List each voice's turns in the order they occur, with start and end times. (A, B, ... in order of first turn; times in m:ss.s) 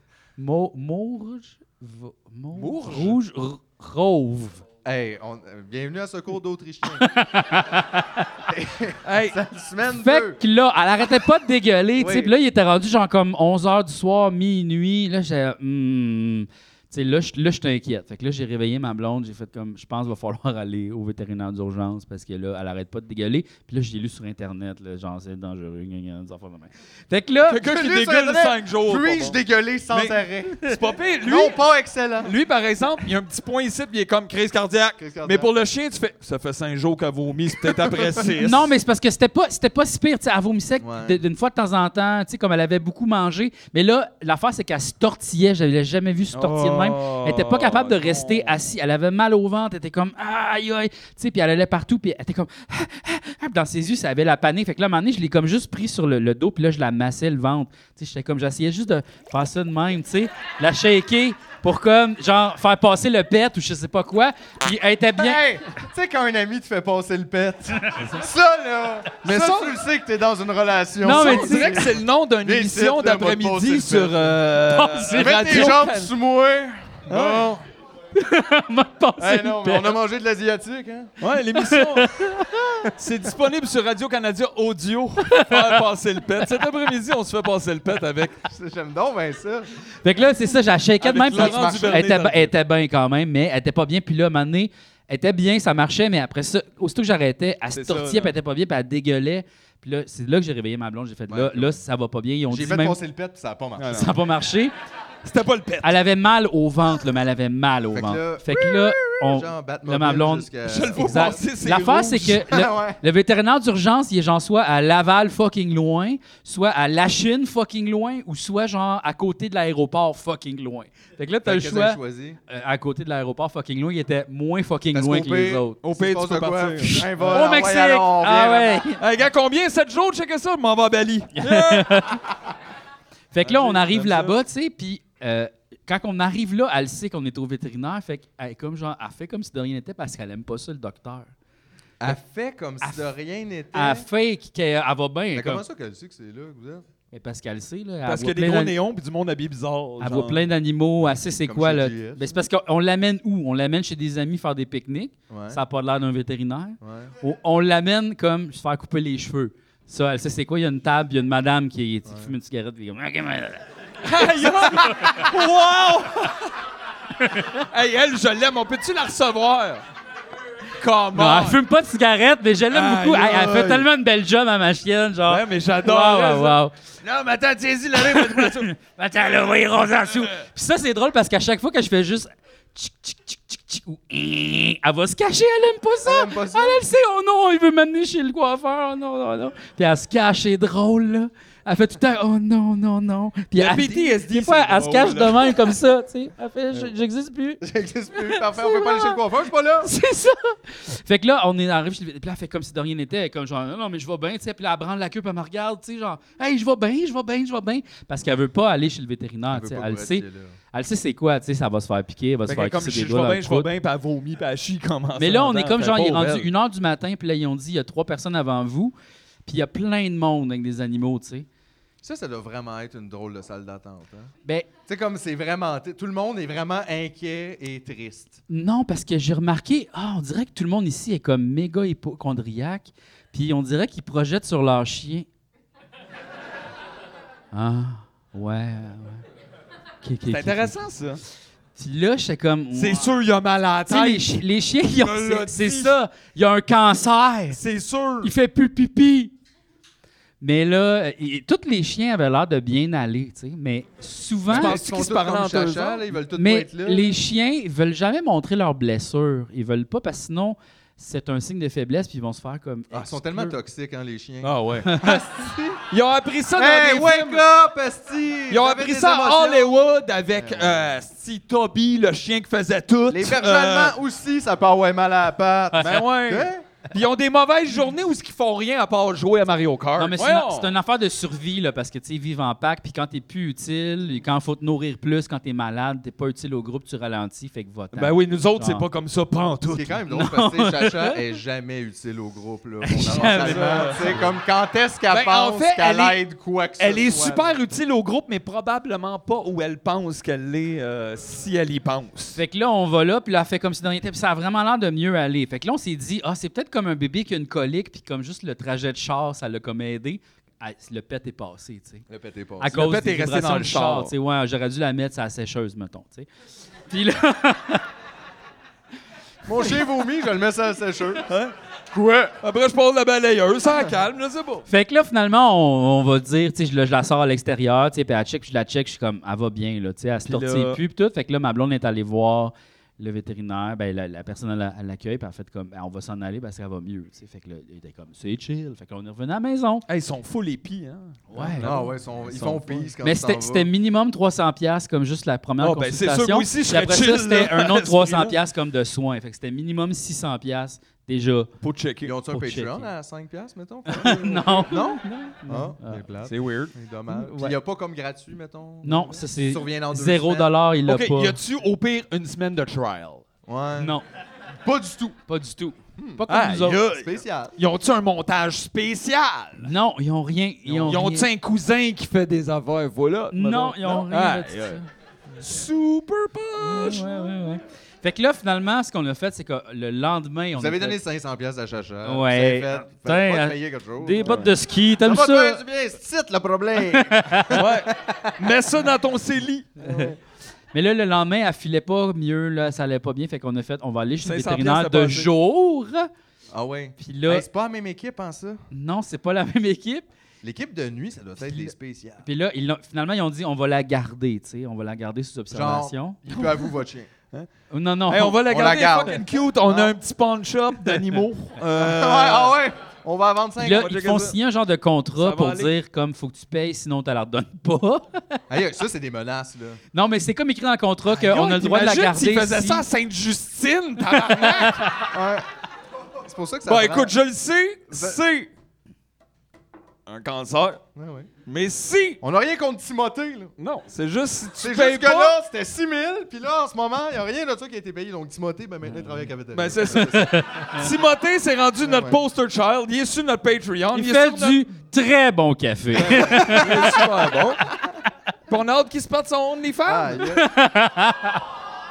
0:00.4-0:04.6 A
0:02.5-0:03.2 B
0:04.8-0:07.1 C
0:07.0-0:08.3 A
0:08.5-0:10.4 C
0:09.0-0:09.4 B
0:09.9-0:27.6 A
0:12.0-0:12.3 C
0:27.5-0:29.4 B
0:27.6-0:30.7 C
0:29.9-0:31.6 B
0:31.2-0:32.3 C
0:32.2-0:38.7 B
0:35.0-0:35.5 C
0:38.4-1:05.4 A
0:40.8-0:41.2 C
0:46.3-0:48.6 B
1:05.1-1:14.4 C
1:09.2-1:09.8 B
1:11.0-1:11.8 A
1:11.0-1:16.1 B
1:14.6-1:15.7 A
1:15.1-1:17.6 C
1:17.1-1:17.5 B
1:18.1-1:20.0 A
1:19.2-1:21.1 C
1:21.2-1:22.1 B
1:21.5-1:22.9 A
1:22.9-1:28.4 B
1:25.3-1:25.8 A
1:28.4-1:29.7 C
1:30.0-1:43.0 A
1:31.0-1:32.5 B
1:31.3-1:32.1 C
1:37.7-1:38.3 B
1:41.3-1:41.8 C
1:42.5-1:44.1 C
1:43.8-1:44.1 B
1:43.9-1:44.7 A
1:45.2-1:46.0 B
1:45.8-2:05.8 A
1:47.9-1:51.4 C
1:50.6-1:52.4 B
1:52.5-1:53.0 C
2:01.4-2:02.4 C
2:04.9-2:08.8 C
2:05.8-2:07.4 B
2:07.3-2:09.0 A
2:09.0-2:12.1 B
2:11.4-2:12.3 A
2:13.3-2:21.3 A
2:13.4-2:14.4 B
2:22.0-2:24.1 C
2:23.7-2:25.6 A
2:25.3-2:26.8 C
2:27.1-2:28.8 A
2:28.0-2:30.4 B
2:30.0-2:45.3 A
2:31.0-2:32.3 C
2:35.3-2:35.6 C
2:36.8-2:37.1 C
2:42.1-2:42.3 C
2:44.0-2:46.5 B
2:47.2-2:47.6 A
2:47.7-2:49.8 B
2:50.8-2:51.6 B
2:51.1-2:56.7 A
2:52.7-2:53.9 B
2:55.3-2:58.7 B
2:57.9-3:17.6 A
2:59.9-3:00.4 B
3:06.0-3:06.8 C
3:13.5-3:15.7 B
3:17.6-3:19.9 C
3:18.1-3:19.2 A
3:19.8-3:33.7 A
3:29.5-3:30.6 C
3:32.5-3:36.5 B
3:35.2-3:38.9 A
3:39.4-3:41.5 A
3:42.0-3:44.3 C
3:44.9-3:48.4 C
3:48.5-3:55.3 A
3:57.5-3:59.2 A
4:00.0-4:00.7 A
4:00.3-4:01.2 B
4:01.8-4:03.1 A
4:02.7-4:04.3 B
4:03.9-4:07.6 A
4:04.9-4:06.0 B
4:07.5-4:08.3 B
4:08.2-4:09.3 A
4:10.4-4:14.8 A
4:14.5-4:17.1 C
4:14.5-4:16.1 B
4:16.3-4:23.5 A
4:22.9-4:25.8 C
4:24.4-4:24.9 B
4:24.8-4:25.2 A
4:25.9-4:27.4 B
4:26.6-4:29.8 C
4:28.5-4:33.9 B
4:30.3-4:31.0 C
4:33.1-4:36.6 C
4:35.7-4:36.0 A
4:35.8-4:40.7 B
4:40.0-4:48.8 A
4:47.9-4:50.0 B
4:49.7-4:57.6 C
4:50.1-4:51.3 A
4:52.8-4:54.2 A
4:53.1-4:54.3 B
4:55.1-4:56.2 B
4:56.8-5:02.4 B
5:02.4-5:12.0 A
5:12.1-5:12.7 C
5:12.6-5:16.3 A
5:12.7-5:14.1 B
5:16.9-5:17.9 A
5:19.4-5:21.3 C
5:21.2-5:21.5 B
5:21.9-5:22.4 C
5:22.4-5:24.6 B
5:24.7-5:39.8 A
5:30.2-5:30.8 B
5:39.9-5:42.9 B
5:41.3-5:41.7 A
5:41.6-5:43.7 C
5:43.0-5:51.5 A
5:45.6-5:48.4 B
5:51.6-5:52.2 B
5:52.0-6:00.5 C
5:52.3-5:52.9 A
5:53.9-5:56.0 A
5:56.2-5:56.7 B
5:57.1-5:57.6 A
5:58.8-6:01.4 A
6:00.8-6:03.2 B
6:03.4-6:04.0 C
6:03.8-6:04.0 A
6:04.6-6:05.2 C
6:05.3-6:06.8 A
6:06.0-6:06.2 C
6:06.3-6:09.7 B
6:06.9-6:07.5 C
6:09.6-6:11.3 A
6:10.6-6:14.8 B
6:13.3-6:14.9 A
6:15.4-6:17.5 B
6:16.6-6:21.0 A
6:20.5-6:24.5 C
6:22.0-6:25.6 A
6:24.2-6:24.5 B
6:25.0-6:28.5 C
6:26.8-6:27.6 A
6:27.5-6:29.8 B
6:29.8-6:30.1 A
6:29.8-6:30.1 C
6:30.7-6:36.1 A
6:34.2-6:35.3 B
6:36.5-6:38.6 C
6:37.0-6:37.4 A
6:38.7-6:40.0 A
6:40.4-6:42.2 C
6:42.2-6:46.5 A
6:45.5-6:47.1 C
6:47.7-6:48.4 A
6:48.1-6:52.6 B
6:48.4-6:50.0 C
6:51.6-6:53.9 C
6:53.6-6:58.4 A
6:53.6-6:54.4 B
6:55.2-6:55.7 B
6:58.5-6:59.8 C
6:59.9-7:02.8 A
7:01.1-7:04.9 B
7:04.1-7:05.1 A
7:05.1-7:05.4 C
7:06.2-7:07.1 C
7:06.7-7:08.5 B
7:07.9-7:08.2 C
7:10.1-7:10.8 B
7:10.9-7:11.3 C
7:11.4-7:12.2 B
7:12.2-7:13.5 C
7:13.6-7:15.4 B
7:14.6-7:20.3 C
7:19.5-7:24.6 B
7:20.0-7:20.9 A
7:21.8-7:22.2 C
7:23.9-7:27.0 A
7:26.0-7:27.6 B
7:26.2-7:27.1 C
7:28.5-7:30.3 B
7:29.8-7:30.5 C
7:30.3-7:31.4 A